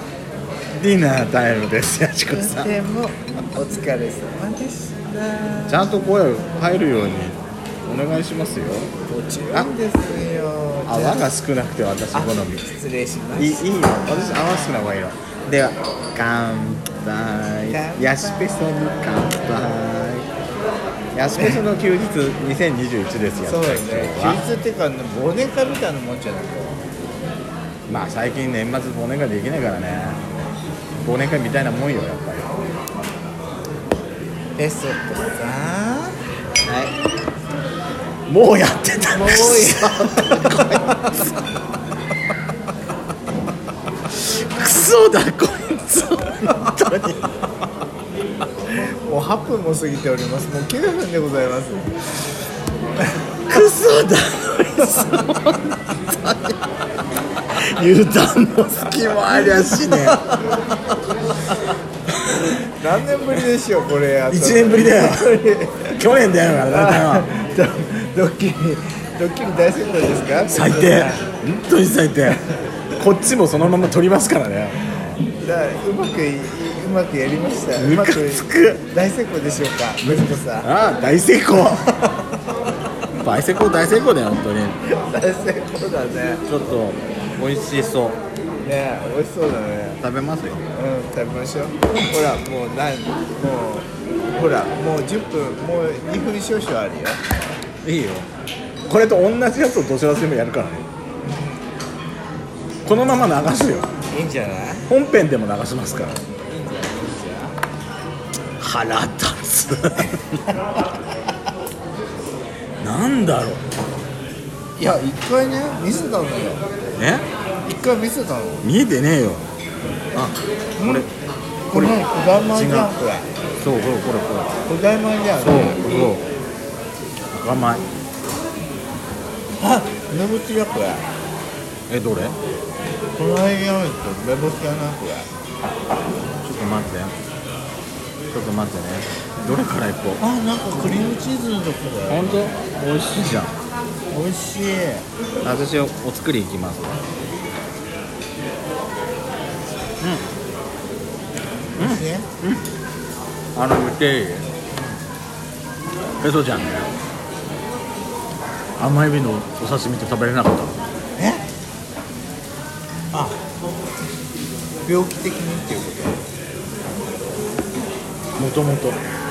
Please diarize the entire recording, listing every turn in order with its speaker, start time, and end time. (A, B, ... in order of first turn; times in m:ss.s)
0:00.7-0:02.7 A
0:02.3-0:05.9 B
0:05.7-0:08.9 A
0:09.1-0:11.3 B
0:10.9-0:12.7 A
0:12.1-0:14.9 B
0:13.4-0:20.3 A
0:17.7-0:18.8 B
0:21.1-0:24.4 A
0:21.4-0:21.6 B
0:23.4-0:26.8 B
0:27.9-0:30.2 A
0:31.0-0:32.5 A
0:34.6-0:37.0 B
0:38.3-0:41.2 A
0:39.1-0:41.1 B
0:44.1-0:47.2 A
0:48.7-0:51.9 B
0:53.5-0:55.8 A
0:57.6-1:00.2 A
0:58.6-1:00.6 B
1:02.4-1:11.3 B
1:04.3-1:05.4 A
1:06.0-1:07.3 A
1:10.5-1:15.2 A
1:15.4-1:20.7 B
1:17.8-1:18.8 A
1:20.0-1:21.9 A
1:23.1-1:24.8 A
1:24.8-1:26.4 B
1:26.4-1:28.2 A
1:28.6-1:30.0 B
1:30.0-1:30.7 A
1:30.7-1:37.2 B
1:37.8-1:38.3 A
1:38.8-1:40.9 A
1:42.8-1:43.9 A
1:44.1-1:44.9 B
1:44.9-1:46.2 A
1:45.9-1:47.6 B
1:48.6-1:50.4 A
1:52.8-1:53.6 A
1:54.8-1:56.6 B
1:57.0-1:57.3 A
1:57.7-1:58.6 B
1:58.6-1:59.5 A
2:00.1-2:01.1 A
2:00.8-2:01.1 B
2:01.7-2:03.3 B
2:02.5-2:02.9 A
2:03.6-2:04.6 A
2:04.7-2:05.8 B
2:05.4-2:06.3 A
2:07.3-2:07.9 A
2:09.6-2:11.1 B
2:11.9-2:12.4 A
2:13.2-2:15.3 B
2:16.4-2:17.2 A
2:18.3-2:20.2 A
2:20.2-2:22.4 B
2:22.1-2:23.6 A
2:24.1-2:25.1 B
2:25.4-2:27.0 A
2:31.8-2:32.3 B
2:31.8-2:32.7 A
2:33.6-2:34.5 A
2:36.2-2:36.9 A
2:38.8-2:40.8 A
2:41.2-2:41.4 B
2:43.1-2:43.4 B
2:44.8-2:46.2 B
2:48.4-2:49.0 A